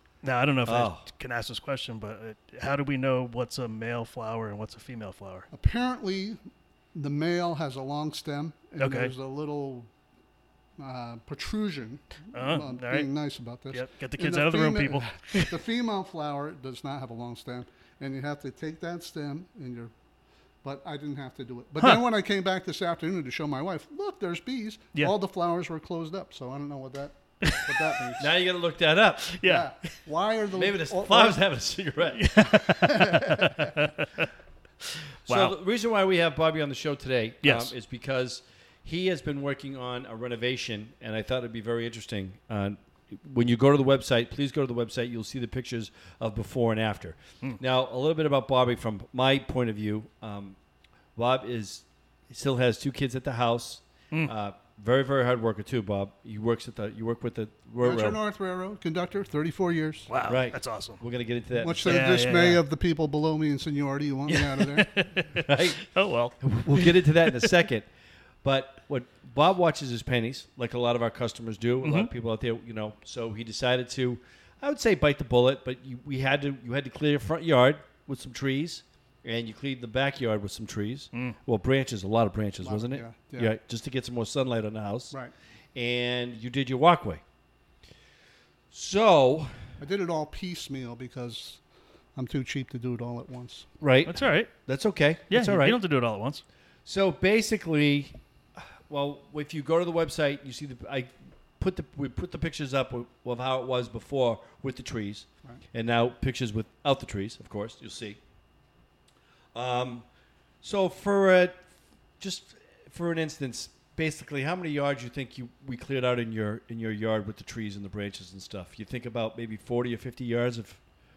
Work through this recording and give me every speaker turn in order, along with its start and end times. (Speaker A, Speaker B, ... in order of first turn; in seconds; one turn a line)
Speaker A: 0.2-5.5
Speaker B: 0.7-1.1
Speaker C: 5.5-6.4
Speaker C: 6.9-9.9
Speaker A: 8.8-9.1
Speaker C: 10.8-19.9
Speaker A: 12.3-13.1
Speaker A: 13.7-15.6
Speaker C: 20.6-28.3
Speaker A: 27.4-27.8
Speaker B: 28.2-29.4
Speaker A: 29.3-29.9
Speaker C: 29.4-31.4
Speaker B: 30.5-32.4
Speaker A: 32.1-34.3
Speaker C: 32.6-33.7
Speaker A: 35.2-35.5
Speaker B: 35.3-50.6
Speaker A: 37.4-37.7
Speaker B: 51.2-58.2
Speaker C: 57.8-60.1
Speaker A: 60.1-61.0
Speaker B: 60.3-62.0
Speaker C: 61.6-65.0
Speaker A: 61.8-62.6
Speaker A: 64.3-67.5
Speaker B: 65.3-67.9
Speaker B: 68.4-85.2
Speaker A: 71.8-72.1
Speaker C: 82.6-83.5
Speaker B: 85.8-87.2
Speaker B: 88.7-89.5
Speaker C: 89.8-91.6
Speaker C: 92.2-93.7
Speaker B: 93.8-95.8
Speaker A: 94.1-94.5
Speaker A: 95.3-96.4
Speaker B: 96.9-108.2
Speaker B: 109.5-110.1
Speaker B: 110.6-111.7
Speaker B: 112.2-120.8